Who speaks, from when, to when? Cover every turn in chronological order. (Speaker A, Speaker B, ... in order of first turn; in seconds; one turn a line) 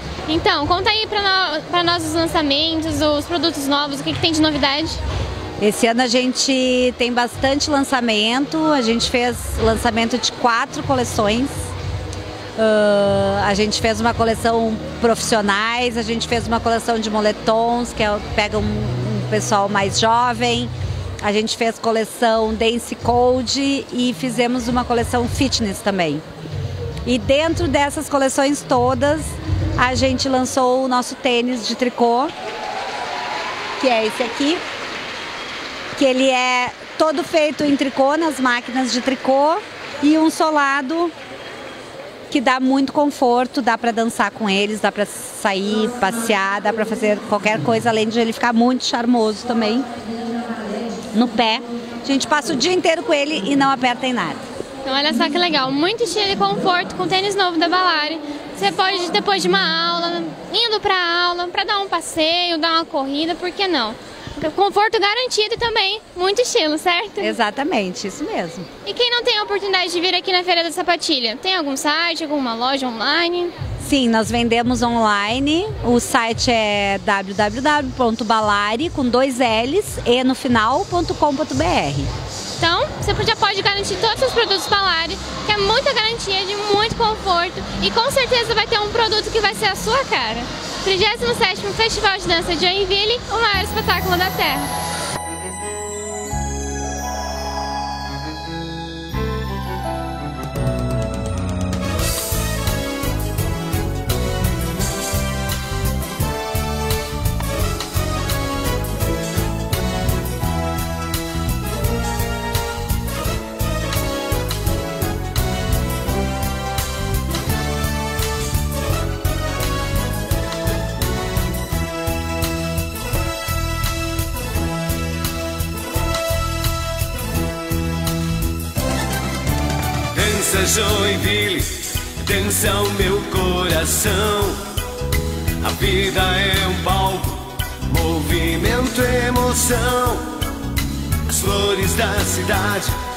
Speaker A: 0.3-5.0
Speaker B: 5.6-11.7
Speaker B: 12.6-26.2
Speaker B: 27.0-32.3
Speaker B: 33.8-34.6
Speaker B: 36.0-41.1
Speaker B: 42.3-49.9
Speaker B: 51.1-54.4
Speaker A: 54.8-67.3
Speaker B: 67.2-68.7
Speaker A: 68.8-73.5
Speaker B: 73.8-82.1
Speaker A: 82.6-94.7
Speaker C: 130.1-134.7
Speaker C: 135.6-140.3
Speaker C: 141.3-142.9